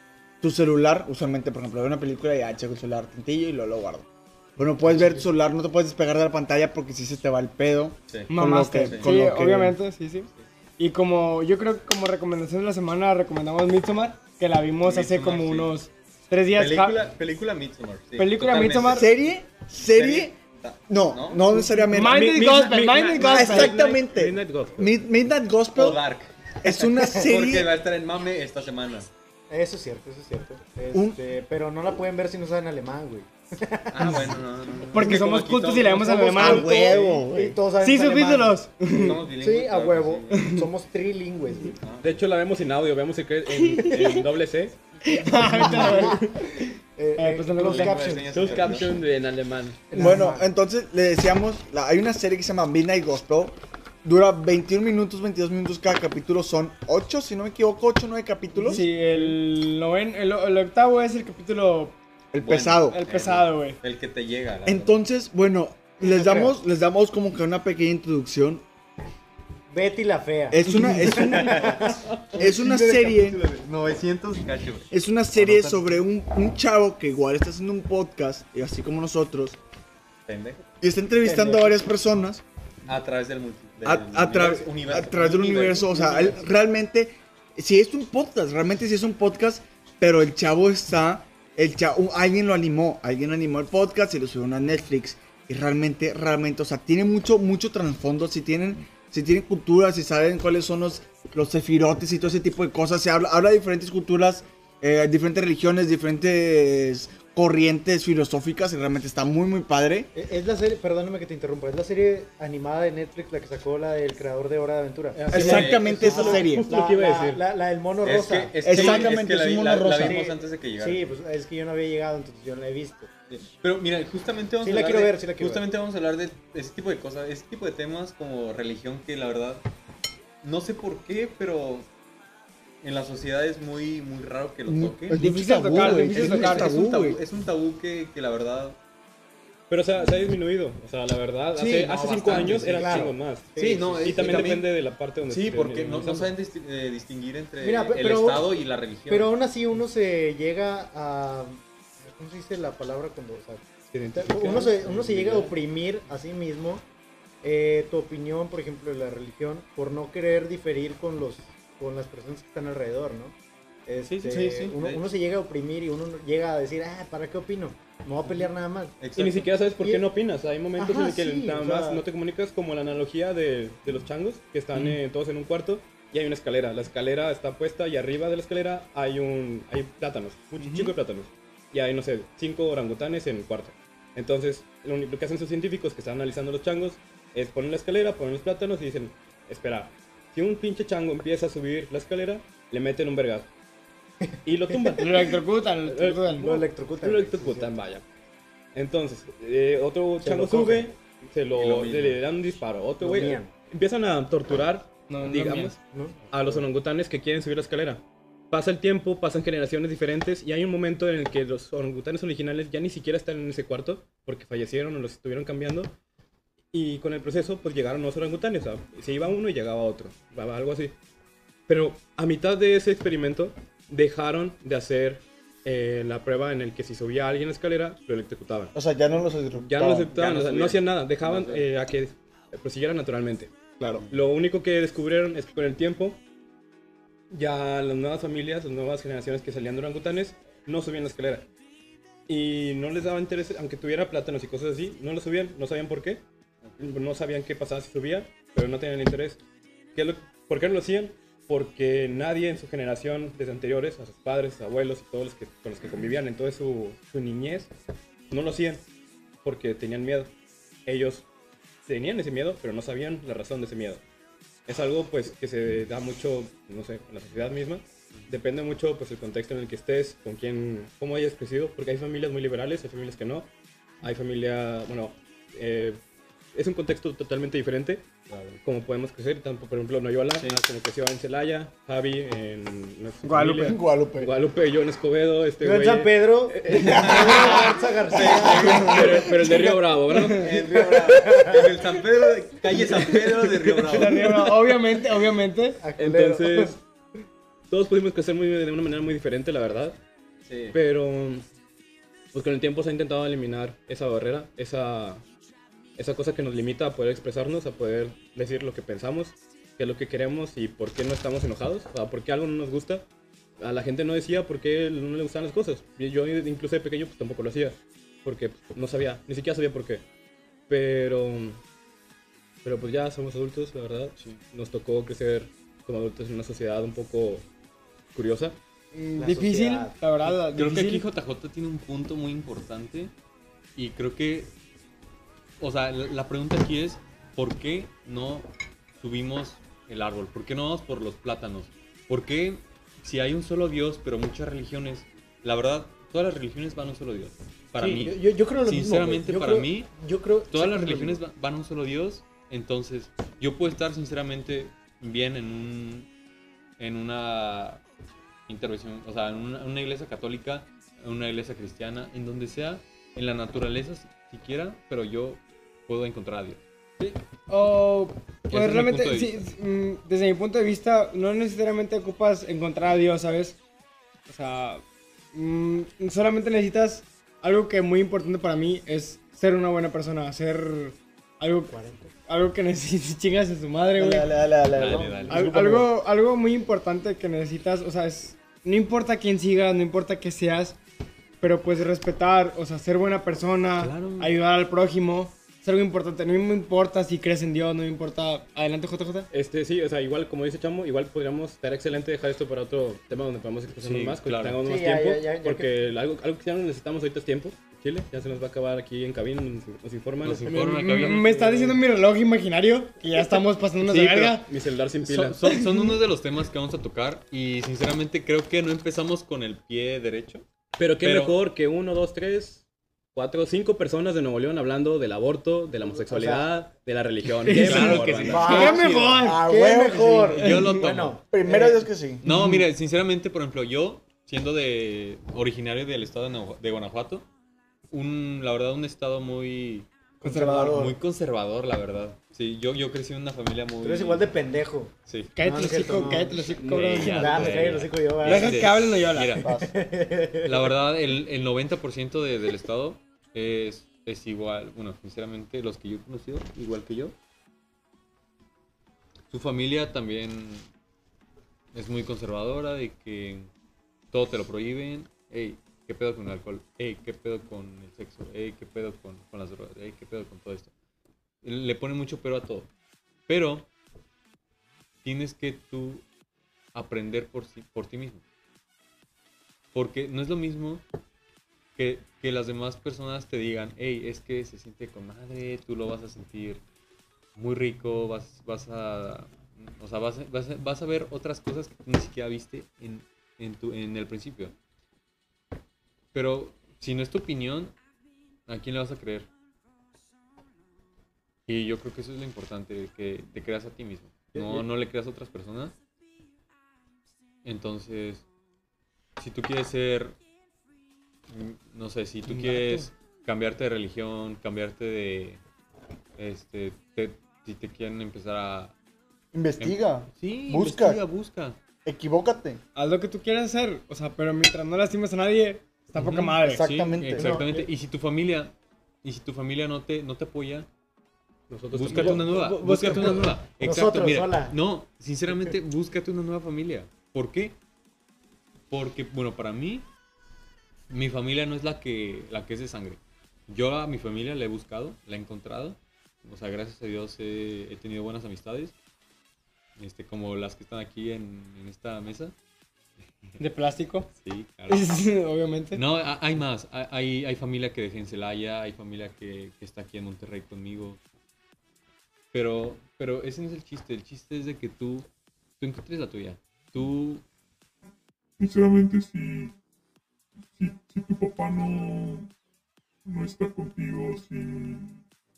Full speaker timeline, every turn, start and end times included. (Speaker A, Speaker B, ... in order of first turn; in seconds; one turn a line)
Speaker A: 0.4-9.8
Speaker B: 8.1-9.1
Speaker C: 8.3-17.0
Speaker B: 14.8-15.7
Speaker B: 16.5-19.1
Speaker C: 18.2-19.1
Speaker A: 18.9-20.4
Speaker B: 19.8-21.5
Speaker A: 20.9-22.4
Speaker C: 21.9-23.8
Speaker D: 21.9-25.0
Speaker A: 23.2-26.0
Speaker B: 25.7-29.1
Speaker A: 26.6-27.8
Speaker E: 29.5-34.2
Speaker A: 30.9-31.2
Speaker B: 33.9-37.2
Speaker C: 34.9-37.0
Speaker A: 36.3-37.6
Speaker E: 36.4-38.6
Speaker C: 37.8-39.2
Speaker B: 38.9-40.5
Speaker E: 39.4-41.8
Speaker C: 40.3-40.7
Speaker B: 41.8-42.2
Speaker D: 42.0-44.8
Speaker C: 43.6-44.2
Speaker C: 45.0-46.5
Speaker D: 45.6-45.9
Speaker E: 45.7-46.2
Speaker E: 47.0-48.8
Speaker C: 47.2-48.2
Speaker B: 47.6-48.9
Speaker D: 48.3-49.9
Speaker E: 49.9-50.5
Speaker A: 50.0-58.8
Speaker C: 50.0-50.3
Speaker C: 58.6-62.0
Speaker A: 62.3-63.0
Speaker B: 62.4-65.0
Speaker C: 62.9-63.8
Speaker A: 64.7-68.6
Speaker E: 66.0-66.5
Speaker E: 69.7-72.5
Speaker A: 70.5-71.8
Speaker B: 71.1-76.0
Speaker A: 72.3-73.4
Speaker A: 74.9-79.6
Speaker B: 80.3-80.7
Speaker A: 80.8-82.4
Speaker E: 81.2-81.8
Speaker B: 82.8-86.5
Speaker A: 83.8-110.1
Speaker E: 110.1-119.1
Speaker D: 115.1-117.4
Speaker A: 115.3-116.7
Speaker B: 115.3-116.0
Speaker B: 118.0-121.1
Speaker A: 118.6-120.2
Speaker E: 120.0-123.1
Speaker B: 123.3-129.6
Speaker E: 124.6-125.6
Speaker B: 130.4-131.9
Speaker B: 132.8-138.8
Speaker A: 134.7-137.2
Speaker C: 135.1-136.7
Speaker D: 139.7-146.3
Speaker B: 140.0-140.2
Speaker B: 141.6-144.7
Speaker E: 142.0-144.5
Speaker B: 145.2-149.3
Speaker E: 147.6-148.5
Speaker E: 149.1-156.8
Speaker D: 153.9-155.5
Speaker E: 157.4-168.9
Speaker D: 164.1-164.4
Speaker B: 164.2-165.0
Speaker B: 169.0-169.5
Speaker D: 169.2-193.5
Speaker E: 169.8-170.1
Speaker E: 170.8-172.0
Speaker C: 180.6-180.9
Speaker E: 194.2-195.0
Speaker D: 194.4-198.0
Speaker C: 195.0-196.6
Speaker E: 196.3-197.7
Speaker D: 198.7-205.8
Speaker E: 200.2-200.9
Speaker B: 201.5-202.2
Speaker E: 203.0-203.5
Speaker C: 205.1-205.7
Speaker E: 205.9-206.6
Speaker D: 206.3-215.9
Speaker D: 216.7-220.9
Speaker D: 221.7-228.7
Speaker A: 228.7-230.6
Speaker D: 229.6-233.5
Speaker B: 230.2-231.6
Speaker A: 233.8-234.1
Speaker D: 234.1-236.2
Speaker D: 237.3-241.5
Speaker D: 242.3-246.2
Speaker D: 246.8-249.4
Speaker D: 249.9-257.7
Speaker D: 258.3-258.8
Speaker D: 259.4-260.3
Speaker D: 260.9-261.3
Speaker D: 261.8-264.0
Speaker D: 264.7-273.5
Speaker D: 274.0-276.0
Speaker D: 276.5-278.1
Speaker B: 278.3-278.6
Speaker D: 278.6-287.8
Speaker B: 280.3-280.6
Speaker C: 283.2-283.8
Speaker A: 283.5-284.3
Speaker E: 285.6-288.9
Speaker B: 286.9-289.3
Speaker A: 288.4-289.8
Speaker D: 288.7-290.5
Speaker C: 290.1-290.5
Speaker B: 290.2-294.5
Speaker E: 290.4-291.6
Speaker D: 292.8-294.1
Speaker C: 293.8-295.8
Speaker E: 295.8-296.8
Speaker D: 296.0-296.8
Speaker D: 297.7-300.0
Speaker B: 300.4-300.7
Speaker D: 300.7-301.4
Speaker D: 302.3-305.2
Speaker D: 305.9-313.0
Speaker D: 313.6-320.0
Speaker D: 320.7-321.6
Speaker D: 322.6-327.4
Speaker D: 328.1-328.6
Speaker C: 328.9-331.1
Speaker E: 329.1-329.9
Speaker B: 330.5-333.1
Speaker B: 333.8-334.5
Speaker B: 335.6-338.5
Speaker B: 339.0-349.9
Speaker E: 347.8-351.2
Speaker B: 350.5-356.1
Speaker B: 356.8-357.8
Speaker B: 358.5-366.6
Speaker C: 367.0-373.6
Speaker B: 368.5-369.5
Speaker C: 374.3-384.3
Speaker E: 381.7-382.1
Speaker A: 383.9-385.9
Speaker B: 384.7-385.5
Speaker E: 384.8-385.3
Speaker C: 385.3-390.8
Speaker C: 391.4-399.3
Speaker B: 393.8-394.3
Speaker D: 399.3-410.6
Speaker B: 403.8-404.6
Speaker E: 404.6-405.7
Speaker B: 410.2-411.5
Speaker C: 410.5-414.5
Speaker D: 413.8-415.4
Speaker B: 415.0-420.4
Speaker C: 415.5-415.9
Speaker D: 420.8-428.9
Speaker B: 421.0-421.4
Speaker E: 425.9-426.5
Speaker C: 427.4-429.4
Speaker B: 427.5-429.2
Speaker E: 428.3-431.9
Speaker A: 429.2-430.6
Speaker B: 430.3-431.2
Speaker A: 431.3-432.2
Speaker B: 432.2-437.3
Speaker C: 432.2-432.6
Speaker B: 437.9-439.9
Speaker A: 440.2-441.0
Speaker C: 440.2-440.8
Speaker B: 440.6-444.3
Speaker E: 443.8-448.7
Speaker B: 445.1-445.3
Speaker C: 445.3-447.7
Speaker B: 445.9-449.5
Speaker D: 446.6-447.7
Speaker C: 448.2-449.4
Speaker E: 449.4-450.8
Speaker A: 449.4-449.7
Speaker B: 450.4-457.1
Speaker B: 459.3-460.7
Speaker B: 461.7-463.5
Speaker B: 464.1-470.7
Speaker B: 471.4-472.7
Speaker B: 473.3-473.7
Speaker B: 475.0-476.0
Speaker B: 476.7-478.2
Speaker B: 479.7-480.8
Speaker B: 481.8-486.6
Speaker B: 487.4-494.5
Speaker B: 496.1-497.7
Speaker B: 498.5-499.3
Speaker B: 501.5-505.7
Speaker E: 504.3-504.6
Speaker B: 507.4-508.2
Speaker B: 509.2-510.2
Speaker B: 511.3-515.4
Speaker B: 516.2-518.7
Speaker A: 519.3-521.0
Speaker B: 519.6-521.6
Speaker A: 521.8-522.6
Speaker C: 522.7-526.6
Speaker B: 526.0-530.7
Speaker A: 526.4-527.5
Speaker E: 527.1-527.6
Speaker D: 531.5-533.2
Speaker B: 531.7-537.5
Speaker A: 532.9-533.2
Speaker E: 533.6-534.5
Speaker B: 538.7-539.9
Speaker B: 540.9-548.7
Speaker B: 549.8-552.3
Speaker C: 553.4-554.1
Speaker B: 554.2-554.9
Speaker C: 554.7-555.8
Speaker B: 555.7-561.0
Speaker B: 562.3-565.1
Speaker B: 565.6-567.2
Speaker F: 568.4-569.5
Speaker F: 570.4-572.3
Speaker F: 573.0-575.0